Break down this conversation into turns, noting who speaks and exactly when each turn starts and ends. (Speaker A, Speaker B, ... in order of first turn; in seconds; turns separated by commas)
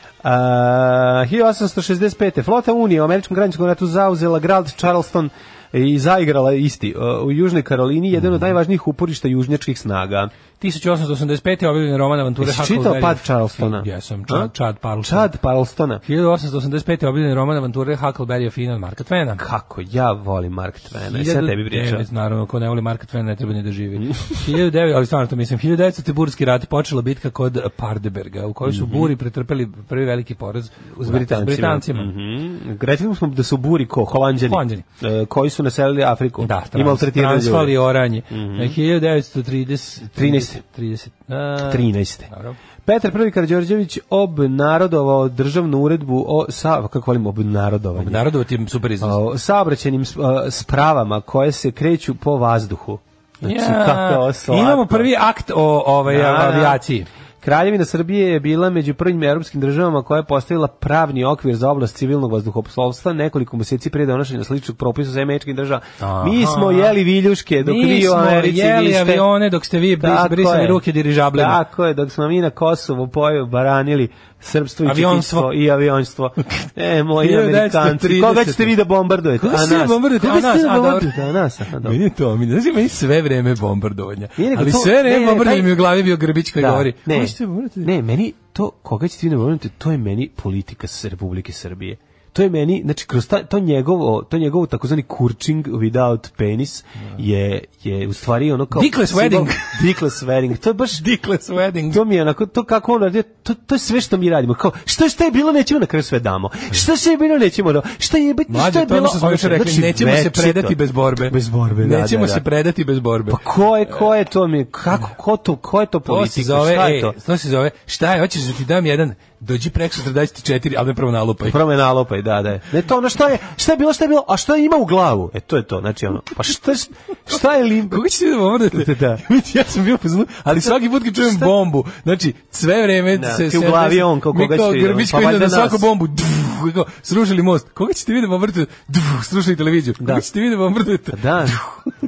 Speaker A: 0.2-10.3, Speaker B: 10.6-15.3, Speaker A: 12.4-16.0, Speaker B: 16.0-19.4, Speaker A: 19.4-22.1, Speaker B: 21.1-32.1, Speaker A: 24.0-24.4, Speaker A: 28.7-29.1, Speaker A: 31.0-37.8, Speaker B: 34.5-34.9, Speaker B: 36.4-42.6, Speaker A: 38.3-38.8, Speaker A: 40.2-40.6, Speaker A: 41.6-42.3, Speaker A: 42.9-48.3, Speaker B: 48.0-49.2, Speaker A: 49.0-55.1, Speaker B: 53.4-57.1, Speaker A: 56.1-56.8, Speaker A: 57.4-69.3, Speaker B: 66.0-67.0, Speaker B: 67.6-71.6, Speaker A: 70.0-70.8, Speaker A: 71.3-82.0, Speaker B: 74.8-75.5, Speaker B: 77.2-78.8, Speaker B: 79.4-81.2, Speaker B: 81.8-87.9, Speaker A: 84.4-85.8, Speaker A: 86.6-101.0, Speaker B: 98.7-99.8, Speaker B: 101.0-102.0, Speaker A: 101.9-112.4, Speaker B: 108.5-114.0, Speaker A: 113.3-117.2, Speaker B: 116.1-121.6, Speaker A: 121.4-128.0, Speaker B: 127.9-141.9, Speaker A: 128.7-129.2, Speaker A: 130.5-131.5, Speaker A: 133.1-135.9, Speaker A: 140.0-140.2, Speaker A: 141.1-141.6